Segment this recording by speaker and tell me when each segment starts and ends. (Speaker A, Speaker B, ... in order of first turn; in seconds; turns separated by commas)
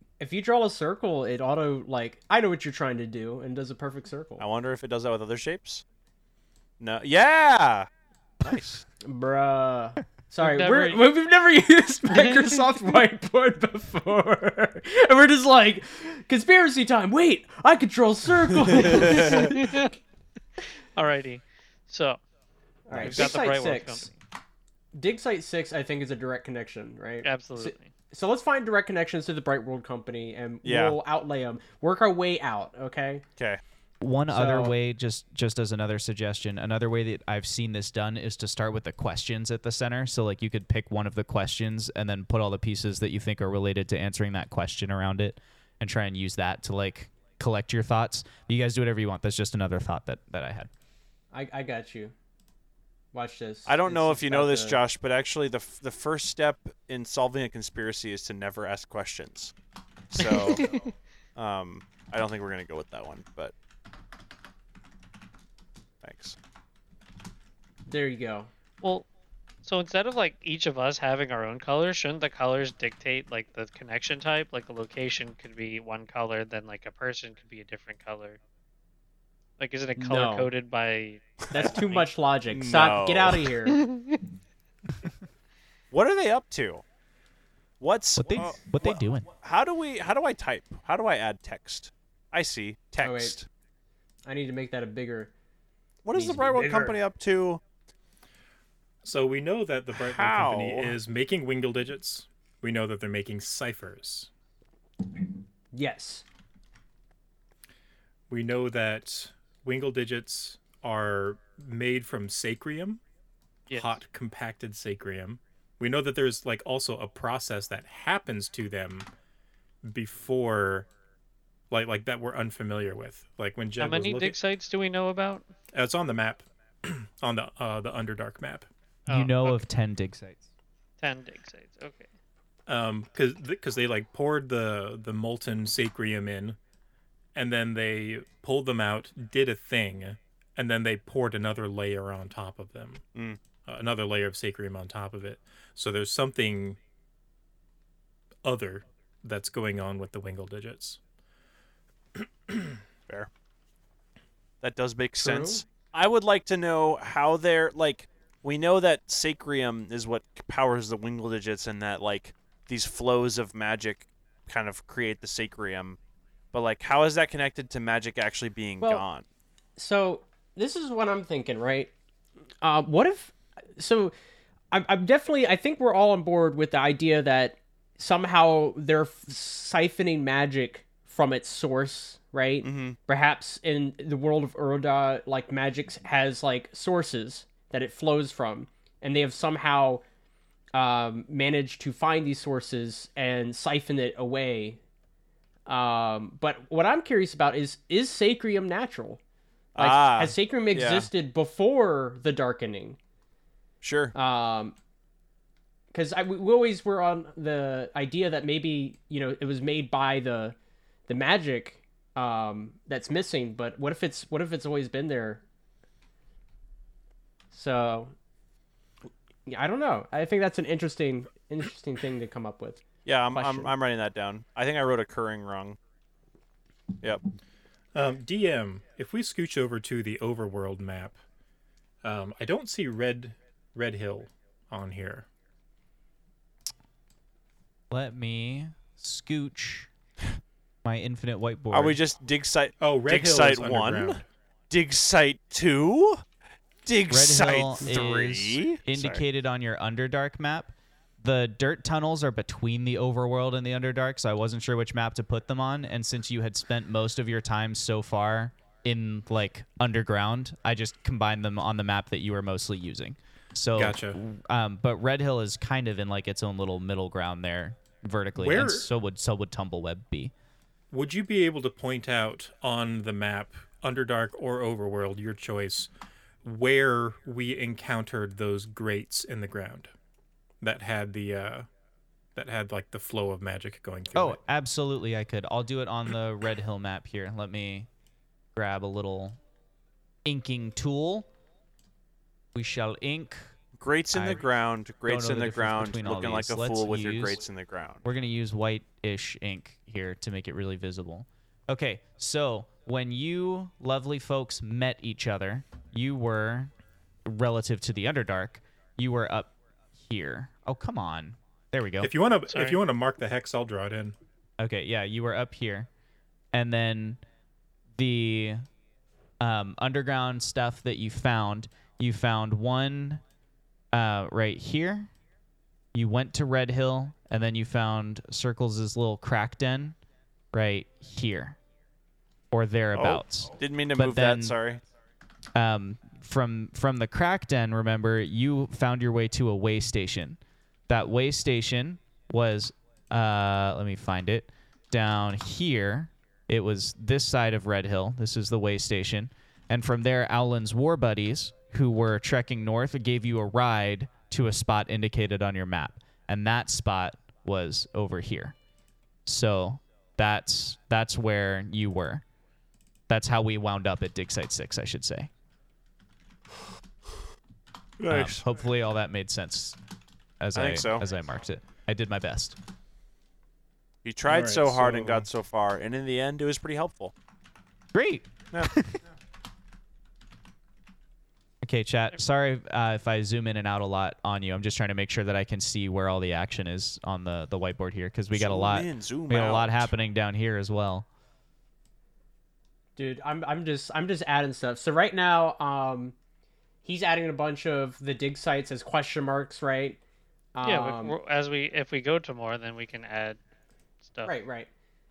Speaker A: 0.2-4.5, Speaker B: 4.4-5.8, Speaker B: 6.8-7.9, Speaker B: 8.4-8.8, Speaker A: 9.0-19.7, Speaker C: 10.4-11.1, Speaker C: 12.1-12.6, Speaker B: 18.7-19.5, Speaker C: 19.0-19.9, Speaker C: 20.9-22.2, Speaker A: 22.9-24.1, Speaker B: 23.0-23.2, Speaker C: 23.0-24.1, Speaker A: 24.9-33.2, Speaker C: 27.2-27.9, Speaker B: 30.6-31.0, Speaker D: 34.0-50.7, Speaker A: 34.3-34.8, Speaker A: 51.3-52.1, Speaker A: 53.1-54.8, Speaker B: 53.7-59.5, Speaker B: 60.1-60.7, Speaker C: 60.2-60.8, Speaker B: 61.4-63.5, Speaker B: 66.0-66.4, Speaker A: 67.9-68.5, Speaker C: 69.6-78.4, Speaker C: 79.6-82.1, Speaker A: 80.0-80.5, Speaker B: 81.5-81.8, Speaker A: 81.5-83.8, Speaker B: 82.5-83.5, Speaker C: 83.7-84.3, Speaker B: 85.9-86.8, Speaker B: 87.8-93.5, Speaker D: 88.2-89.3, Speaker A: 93.0-93.4, Speaker A: 94.3-95.3, Speaker B: 96.0-97.6, Speaker A: 96.1-97.0, Speaker E: 99.0-104.3, Speaker B: 100.0-101.0, Speaker A: 105.7-106.2, Speaker E: 108.3-113.0, Speaker C: 113.7-114.0, Speaker E: 113.7-119.1, Speaker E: 119.8-120.9, Speaker E: 121.7-124.4, Speaker C: 123.8-125.5, Speaker E: 125.7-128.7, Speaker C: 129.1-129.7, Speaker D: 129.1-130.5, Speaker C: 131.0-132.1, Speaker E: 132.7-136.6, Speaker E: 137.3-143.1, Speaker B: 143.1-143.4, Speaker E: 143.7-146.8, Speaker E: 148.4-151.0, Speaker E: 152.2-152.8, Speaker B: 154.6-166.0, Speaker A: 155.2-155.6, Speaker B: 166.5-169.2, Speaker A: 169.8-171.9, Speaker A: 172.6-174.1, Speaker A: 174.7-190.0, Speaker B: 182.6-183.0, Speaker A: 190.7-194.8, Speaker A: 195.7-199.2, Speaker B: 199.8-201.1, Speaker A: 199.8-203.0, Speaker B: 203.8-204.2, Speaker A: 204.2-204.8, Speaker A: 205.9-210.6, Speaker A: 211.1-215.4, Speaker A: 217.5-218.1, Speaker A: 219.5-223.7, Speaker B: 223.1-225.8, Speaker E: 227.9-231.2, Speaker E: 232.0-235.3, Speaker D: 237.9-239.9, Speaker D: 240.8-242.0, Speaker B: 241.7-246.2, Speaker E: 242.8-244.2, Speaker B: 246.8-249.2, Speaker D: 247.1-270.3, Speaker E: 263.8-264.2, Speaker E: 268.4-268.9, Speaker E: 270.9-275.9, Speaker E: 276.4-279.9, Speaker E: 280.6-281.7, Speaker E: 282.4-284.4, Speaker D: 284.1-287.9, Speaker D: 288.6-289.4, Speaker D: 290.2-291.3, Speaker D: 292.5-293.5, Speaker B: 293.8-298.1, Speaker D: 294.1-294.5, Speaker D: 295.1-297.4, Speaker D: 298.0-306.7, Speaker D: 307.2-312.1, Speaker E: 312.0-314.2, Speaker C: 312.5-312.8, Speaker D: 314.6-315.9, Speaker D: 316.5-317.2, Speaker D: 318.0-318.6, Speaker D: 319.4-323.2, Speaker D: 323.9-325.1, Speaker D: 325.9-330.0, Speaker D: 330.5-331.6, Speaker D: 332.5-334.6, Speaker B: 332.9-334.8, Speaker D: 335.5-358.6, Speaker D: 359.3-362.2, Speaker D: 363.1-365.3, Speaker B: 368.0-368.4, Speaker D: 368.1-369.8, Speaker D: 370.4-372.6, Speaker B: 370.6-371.0, Speaker B: 374.0-377.1, Speaker E: 374.3-375.3, Speaker D: 377.9-379.0, Speaker D: 381.6-391.1, Speaker B: 388.3-389.9, Speaker A: 393.0-396.2, Speaker A: 396.8-400.0, Speaker A: 400.6-401.2, Speaker C: 400.6-403.4, Speaker C: 404.0-404.3, Speaker A: 404.2-404.7